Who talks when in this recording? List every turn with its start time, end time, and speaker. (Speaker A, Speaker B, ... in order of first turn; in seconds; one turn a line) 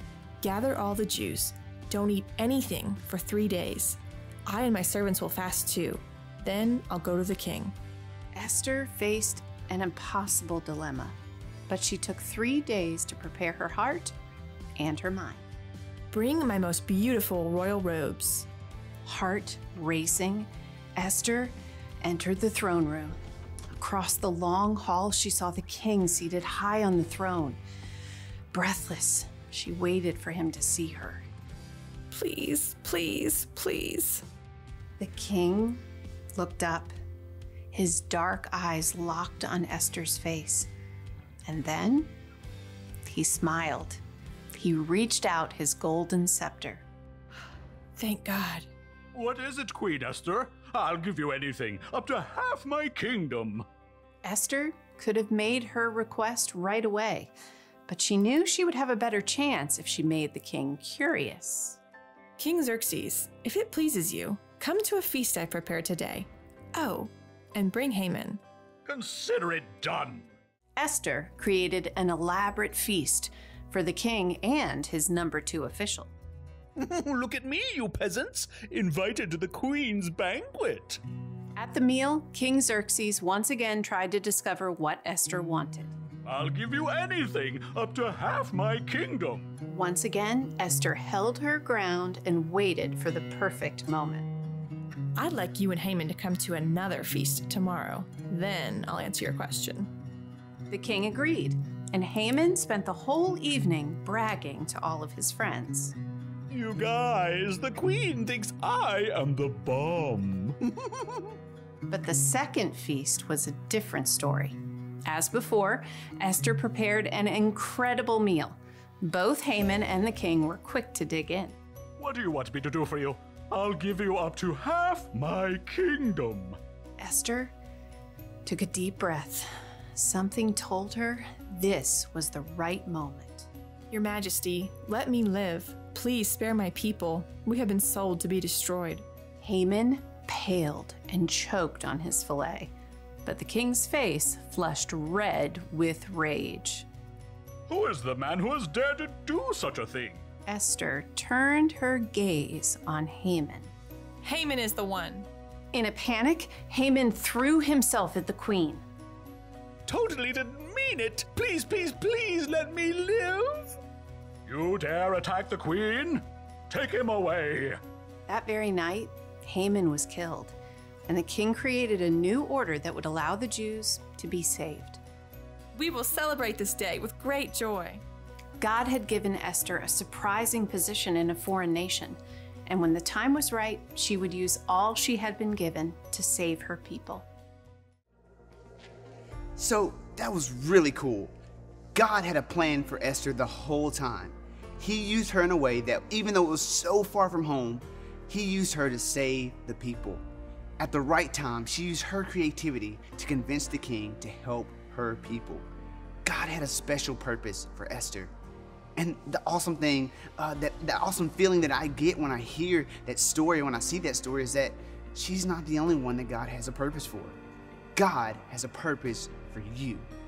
Speaker A: 0.4-7.7
Speaker B: 8.3-14.1
Speaker B: 14.8-15.4
Speaker A: 16.1-18.5
Speaker B: 19.1-23.2
Speaker B: 23.8-27.6
Speaker B: 28.5-31.2
Speaker A: 32.1-34.2
Speaker B: 35.0-35.8
Speaker B: 36.4-37.0
Speaker B: 37.7-40.7
Speaker B: 41.5-42.1
Speaker B: 43.0-44.0
Speaker B: 44.5-46.9
Speaker A: 48.0-48.7
Speaker C: 49.1-53.6
Speaker B: 54.2-57.3
Speaker B: 57.9-61.8
Speaker A: 62.4-68.4
Speaker C: 68.9-70.3
Speaker B: 70.8-76.1
Speaker D: 76.9-77.4
Speaker C: 77.6-77.9
Speaker C: 78.4-81.0
Speaker B: 81.6-85.9
Speaker C: 86.2-89.5
Speaker B: 89.7-94.3
Speaker A: 95.2-99.9
Speaker B: 100.7-106.0
Speaker C: 106.5-110.6
Speaker B: 111.9-121.6
Speaker C: 122.0-126.6
Speaker B: 127.0-127.5
Speaker B: 128.5-133.5
Speaker A: 133.9-139.1
Speaker B: 139.4-142.7
Speaker B: 143.2-146.9
Speaker C: 147.7-150.2
Speaker B: 150.5-153.7
Speaker A: 154.2-155.3
Speaker B: 155.7-158.8
Speaker D: 159.9-163.8
Speaker C: 164.5-167.8
Speaker B: 168.3-170.6
Speaker B: 171.1-175.0
Speaker A: 175.8-178.0
Speaker B: 178.6-187.3
Speaker E: 189.6-191.3
Speaker E: 191.9-200.2
Speaker E: 200.8-205.7
Speaker E: 206.2-208.3
Speaker E: 209.0-217.4
Speaker E: 217.9-220.1